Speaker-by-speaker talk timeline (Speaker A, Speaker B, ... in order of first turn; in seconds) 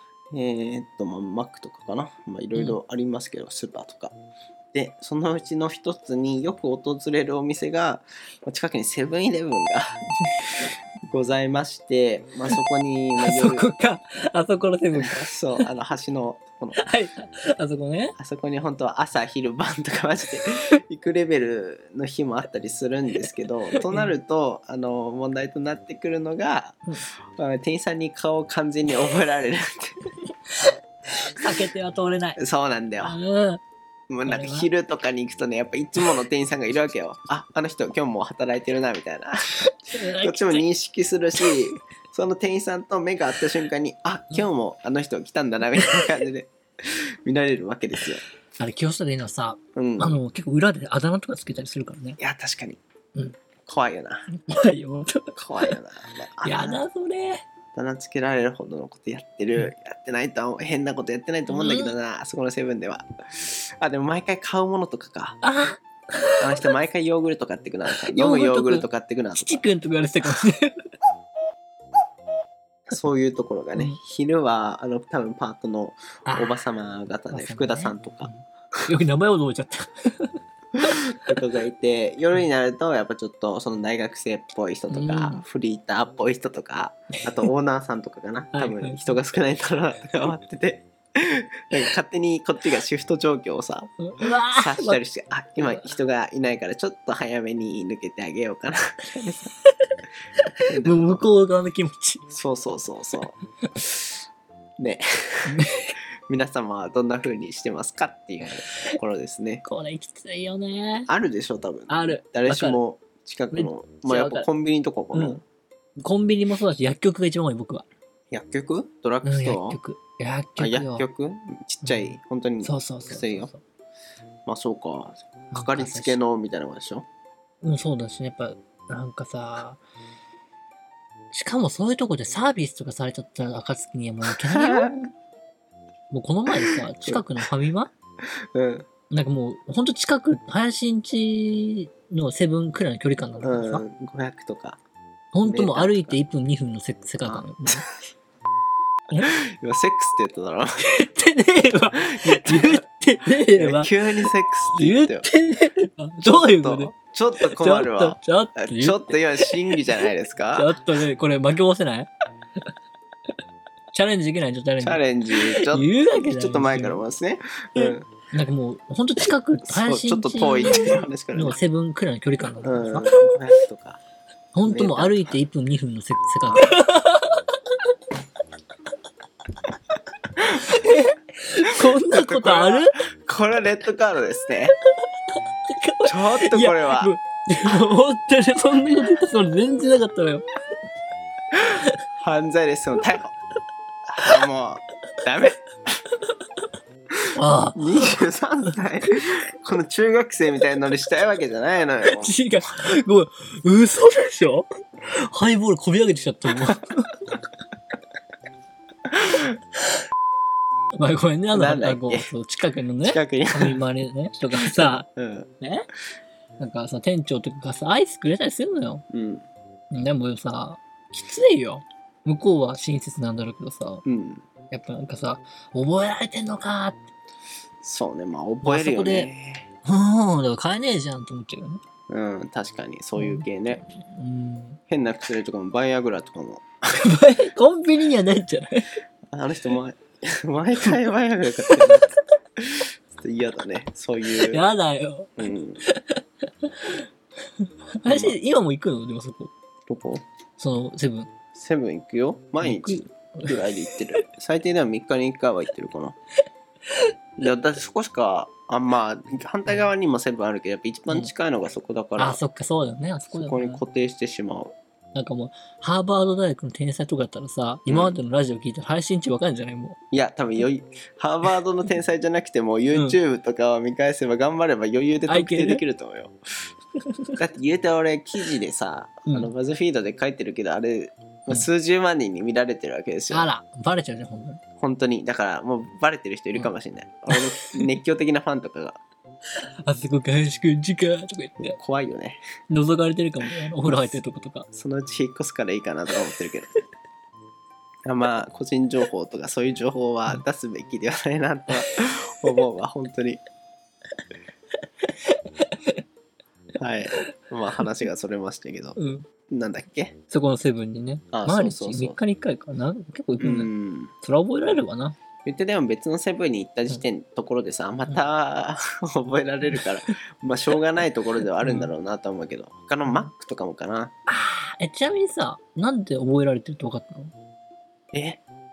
Speaker A: 0.3-4.1, 4.7-10.0, 11.1-13.7, 14.9-16.8, 18.1-30.0, 32.4-33.1, 34.1-39.5, 40.2-48.2, 49.7-50.2, 52.2-52.8, 53.6-54.3, 55.3-56.8, 57.7-65.4, 66.4-69.7, 72.9-78.3, 81.1-99.5, 100.7-101.2, 102.3-104.1, 104.8-105.5, 106.3-109.6, 111.1-115.4, 118.3-119.8, 120.6-123.5, 124.5-127.0, 134.5-135.0, 138.5-138.9, 143.4-144.8, 145.5-146.2, 147.2-147.8, 149.2-150.8, 152.1-155.3, 156.2-160.8, 164.8-168.1, 169.7-171.6, 172.6-174.0, 174.7-175.4, 176.5-176.7, 181.9-184.7, 186.0-187.1, 192.1-193.3, 194.1-195.7, 197.7-202.3, 209.2-209.5, 211.5-212.3, 213.0-213.8, 214.5-215.5, 219.1-219.4, 224.1-224.4, 227.8-229.7, 232.1-233.8, 234.9-236.7, 239.3-244.6, 245.4-245.8, 248.1-248.3, 249.9-250.2, 251.5-256.1, 257.4-262.4, 263.3-264.7, 267.9-268.1, 270.1-276.3, 277.4-283.5, 284.8-289.0, 291.6-292.4, 293.8-294.2, 294.7-296.7, 298.1-303.4, 306.8-310.1, 311.3-312.2, 313.4-314.1, 315.4-324.1, 328.1-328.4
Speaker B: 13.2-15.6, 16.8-18.1, 23.7-24.1, 31.3-32.4, 33.0-33.6, 34.2-34.7, 39.9-40.6, 45.8-46.1, 48.6-52.2, 54.3-55.7, 56.4-57.4, 61.5-61.9, 65.4-66.4, 68.0-70.8, 76.3-76.5, 77.3-81.1, 84.9-85.4, 88.5-89.0, 94.0-95.0, 95.6-95.9, 100.8-102.2, 105.5-105.9, 108.7-109.0, 109.6-111.1, 111.9-112.8, 113.5-114.5, 115.1-115.4, 116.0-117.8, 119.2-121.0, 121.8-123.6, 125.5-126.2, 127.6-129.8, 131.3-134.9, 136.1-137.9, 139.1-143.8, 145.3-147.8, 150.8-153.9, 154.8-159.8, 160.5-162.1, 163.9-167.0, 167.7-173.2, 174.5-177.4, 180.6-183.0, 185.7-190.4, 197.3-198.2, 202.1-204.7, 205.2-207.1, 210.9-215.1, 215.6-215.8, 216.6-219.0, 219.9-224.0, 224.7-227.0, 228.6-229.3, 229.8-231.8, 233.2-234.8, 236.9-238.9, 241.6-241.9, 244.3-247.0, 248.0-249.5, 250.6-251.3, 252.6-254.2, 262.2-263.8, 265.1-270.0, 275.3-275.8, 283.3-284.6, 287.3-287.8, 289.8-291.8, 292.7-294.7, 305.6-306.0, 308.9-309.3, 310.3-313.7, 314.2-315.1, 319.7-320.1, 321.6-321.9, 324.3-327.3